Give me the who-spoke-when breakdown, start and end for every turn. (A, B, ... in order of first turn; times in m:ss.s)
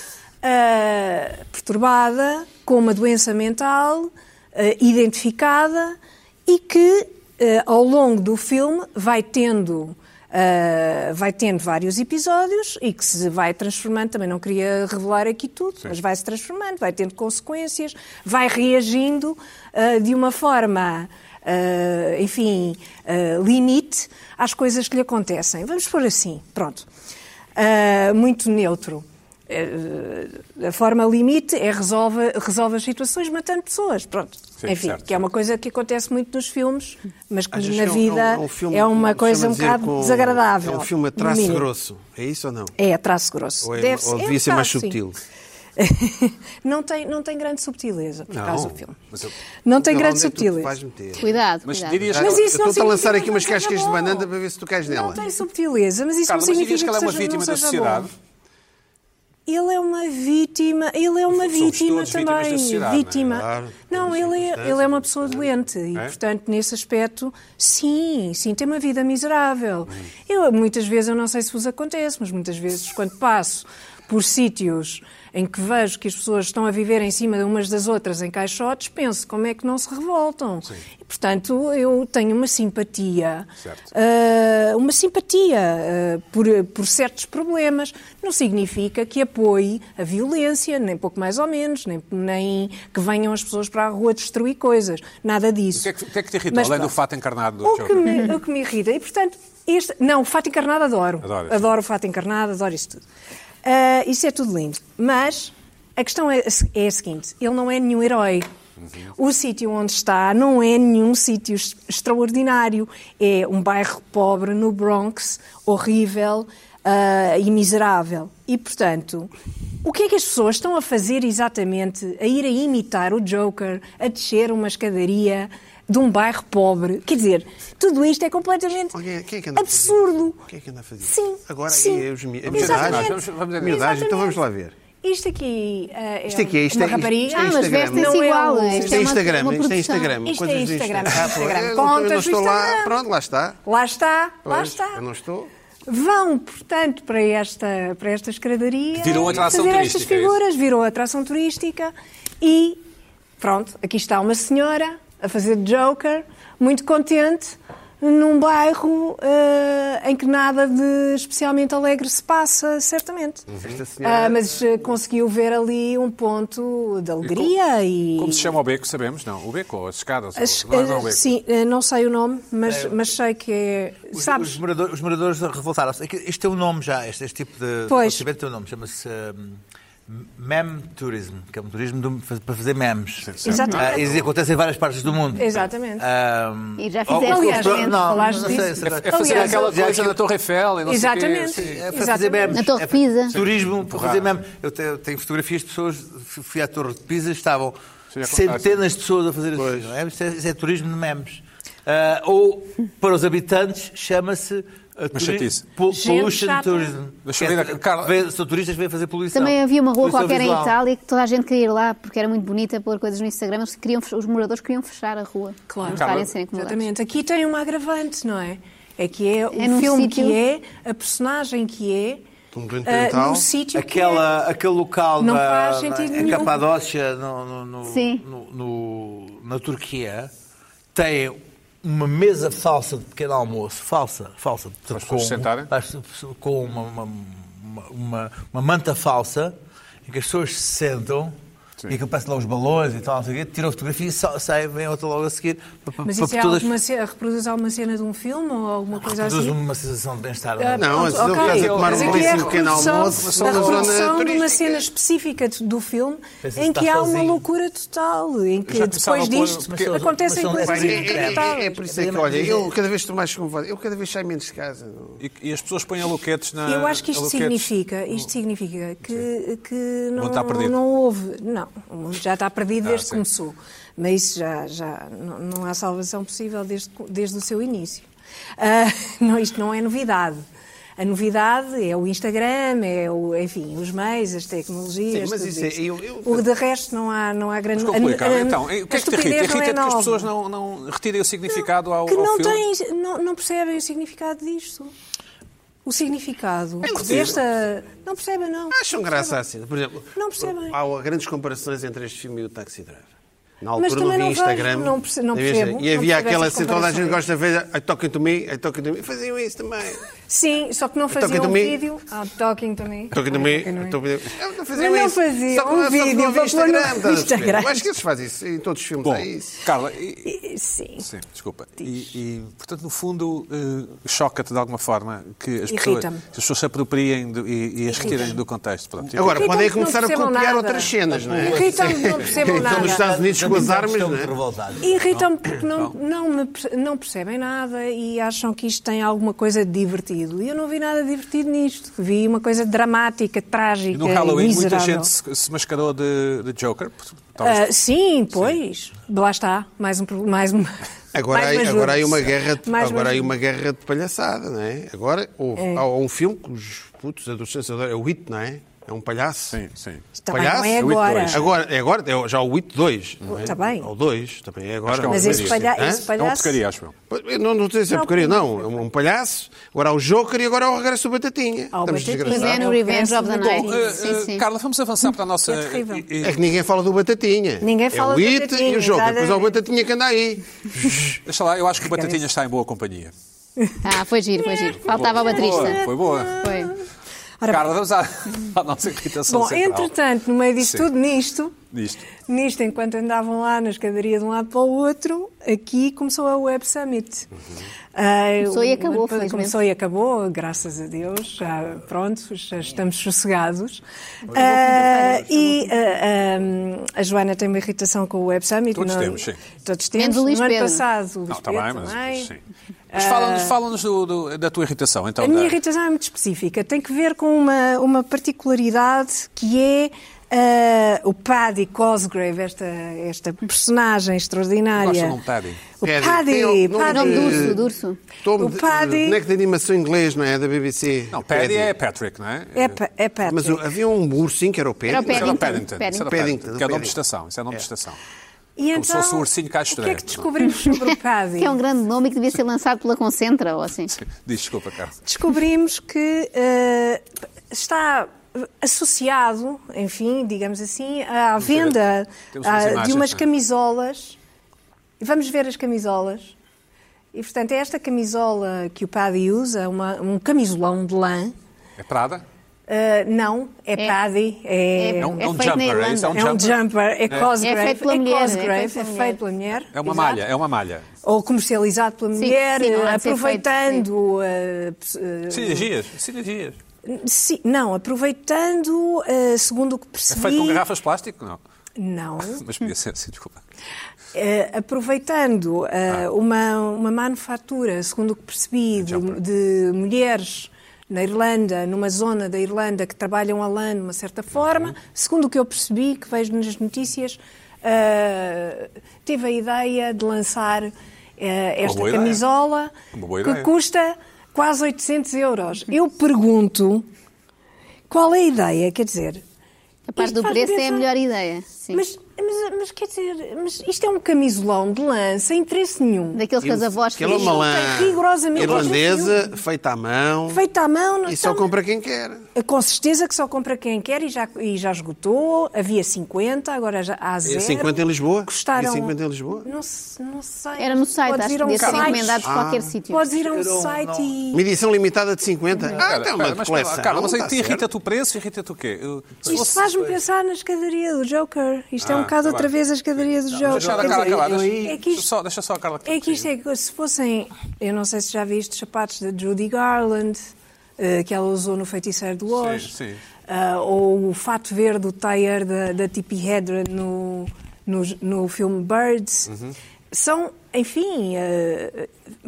0:00.4-0:26.9 A
0:27.6-0:41.7 A
0:34.6-0:35.2 B
0:37.5-0:42.7 C
0:42.8-0:45.0 A
0:43.6-0:45.2 C
0:45.8-0:49.0 A
0:48.3-0:49.3 B
0:49.6-0:50.7 A
0:49.8-0:51.4 C
0:51.2-0:52.1 D
0:51.6-0:52.5 B
0:52.1-0:55.3 C
0:52.2-0:54.3 A
0:54.9-0:58.1 A
0:56.3-0:58.1 B
0:59.5-1:35.9 A
1:01.3-1:03.3 B
1:03.3-1:05.5 C
1:35.8-1:38.2 B
1:36.5-1:37.0 A
1:37.6-1:43.0 A
1:41.2-1:41.7 B
1:43.6-1:48.5 A
1:49.2-1:59.3 A
1:59.8-2:09.0 A
2:08.9-2:14.8 C
2:09.6-2:10.4 A
2:11.0-2:14.4 A
2:12.5-2:13.8 B
2:15.0-2:19.2 A
2:16.3-2:23.6 C
2:17.3-2:20.2 D
2:20.2-2:22.9 A
2:23.6-2:25.0 A
2:24.4-2:25.5 C
2:25.9-2:32.8 A
2:29.0-2:30.4 B
2:33.4-2:43.5 A
2:43.6-2:44.5 C
2:44.0-2:48.5 A
2:47.2-2:47.5 B
2:48.2-2:51.3 B
2:50.4-2:54.6 A
2:52.7-2:53.0 E
2:54.1-3:10.2 E
2:57.9-2:58.3 A
3:03.2-3:04.3 B
3:03.4-3:04.1 A
3:05.4-3:06.1 A
3:06.8-3:08.4 D
3:07.2-3:09.8 A
3:08.8-3:11.9 B
3:10.9-3:12.6 A
3:11.6-3:30.8 E
3:12.5-3:13.4 D
3:13.3-3:14.3 B
3:18.1-3:18.8 B
3:19.6-3:19.9 C
3:25.1-3:25.6 B
3:25.9-3:26.9 A
3:27.2-3:28.2 B
3:29.3-3:36.8 D
3:35.7-3:42.2 A
3:35.9-3:36.3 B
3:39.5-3:40.4 D
3:42.5-3:43.5 C
3:42.9-3:44.3 A
3:43.7-3:50.3 E
3:45.2-3:46.6 A
3:47.9-3:48.2 D
3:50.9-4:01.4 E
3:54.9-3:55.7 B
4:01.9-4:06.7 E
4:06.0-4:09.6 A
4:09.1-4:12.1 E
4:10.6-4:21.7 A
4:10.8-4:14.9 C
4:11.4-4:14.1 B
4:16.4-4:17.4 E
4:18.7-4:20.0 B
4:19.6-4:22.7 E
4:20.6-4:25.2 C
4:25.2-4:28.3 B
4:26.6-4:38.1 A
4:30.2-4:30.8 B
4:32.8-4:33.2 B
4:38.6-4:40.4 A
4:41.0-4:50.3 A
4:45.1-4:46.5 C
4:47.8-4:52.6 B
4:51.5-4:54.9 A
4:55.8-4:59.4 A
4:56.8-4:57.4 B
4:58.7-5:03.1 C
5:00.2-5:00.8 A
5:03.6-5:10.0 C
5:03.8-5:07.2 A
5:10.3-5:14.0 A
5:11.1-5:11.8 C
5:13.1-5:19.6 C
5:14.7-5:17.9 A
5:19.0-5:20.3 B
5:20.3-5:21.1 A
5:21.0-5:29.5 B
5:25.7-5:26.2 A
5:27.9-5:28.4 A
5:29.2-5:34.3 C
5:29.2-5:33.1 A
5:31.1-5:35.0 E
5:34.8-5:45.1 A
5:35.1-5:35.9 B
5:43.9-5:47.7 B
5:47.4-5:53.3 A
5:51.1-5:59.6 C
5:55.6-5:55.8 A
5:59.5-6:00.0 B
6:00.2-6:01.4 A
6:00.3-6:06.1 C
6:00.8-6:01.5 B
6:03.3-6:03.9 A
6:04.9-6:06.9 B
6:05.1-6:06.6 A
6:07.1-6:12.7 C
6:07.9-6:08.8 A
6:11.7-6:14.0 A
6:12.3-6:14.4 D
6:13.6-6:16.4 B
6:15.4-6:16.1 A
6:16.2-6:21.1 C
6:17.6-6:19.6 A
6:21.3-6:23.1 B
6:23.8-6:25.8 D
6:24.4-6:26.8 A
6:24.8-6:26.4 B
6:26.4-6:26.7 D
6:27.4-6:27.7 A
6:27.5-6:30.0 B
6:29.3-6:31.6 A
6:30.6-6:30.9 B
6:31.7-6:32.1 B
6:32.3-6:37.3 A
6:38.0-6:52.3 A
6:38.4-6:39.6 D
6:44.3-6:45.2 B
6:44.7-6:45.5 D
6:48.7-6:49.4 B
6:50.0-6:50.8 D
6:51.3-6:52.4 B
6:52.9-6:53.6 A
6:52.9-6:55.6 B
6:55.2-7:05.2 A
7:04.7-7:05.6 B
7:05.8-7:07.6 A
7:05.8-7:07.6 C
7:06.9-7:08.0 D
7:08.2-7:11.7 C
7:08.4-7:09.2 A
7:11.1-7:12.8 B
7:12.6-7:13.6 A
7:13.2-7:17.0 C
7:14.9-7:16.1 D
7:14.9-7:18.0 B
7:18.6-7:21.6 A
7:18.7-7:20.3 B
7:21.4-7:23.9 D
7:23.9-7:25.0 B
7:25.0-7:34.2 A
7:31.4-7:31.8 B
7:32.3-7:33.2 B
7:35.0-7:36.3 A
7:37.1-7:41.4 A
7:41.8-7:42.2 B
7:42.7-7:45.4 A
7:44.8-7:46.2 D
7:45.0-7:47.3 B
7:46.1-7:50.2 A
7:47.4-7:49.2 D
7:49.7-7:50.9 B
7:51.0-7:55.7 A
7:52.2-7:53.9 D
7:55.3-7:56.6 B
7:56.9-8:00.6 A
8:00.1-8:01.4 B
8:01.8-8:02.4 A
8:02.2-8:03.4 B
8:04.1-8:26.9 A
8:08.8-8:09.2 B
8:14.4-8:14.7 B
8:21.6-8:22.2 B
8:22.9-8:23.5 B
8:27.9-8:29.2 A
8:29.9-8:31.8 D
8:30.0-8:30.9 A
8:31.7-8:36.2 A
8:36.1-8:37.5 D
8:36.4-8:40.4 C
8:37.0-8:39.2 A
8:40.3-8:41.5 A
8:41.1-8:42.3 C
8:42.4-8:52.3 A
8:47.2-8:49.5 C
8:50.6-8:53.1 D
8:51.5-8:52.1 B
8:52.2-8:52.7 C
8:52.9-8:54.4 A
8:53.2-8:54.1 E
8:54.3-8:57.6 C
8:55.8-8:59.6 B
8:59.2-9:00.0 E
8:59.3-9:05.1 A
9:01.8-9:02.5 B
9:03.3-9:04.8 E
9:03.4-9:06.3 B
9:05.8-9:12.7 A
9:12.3-9:13.0 B
9:13.3-9:19.3 A
9:19.9-9:21.9 A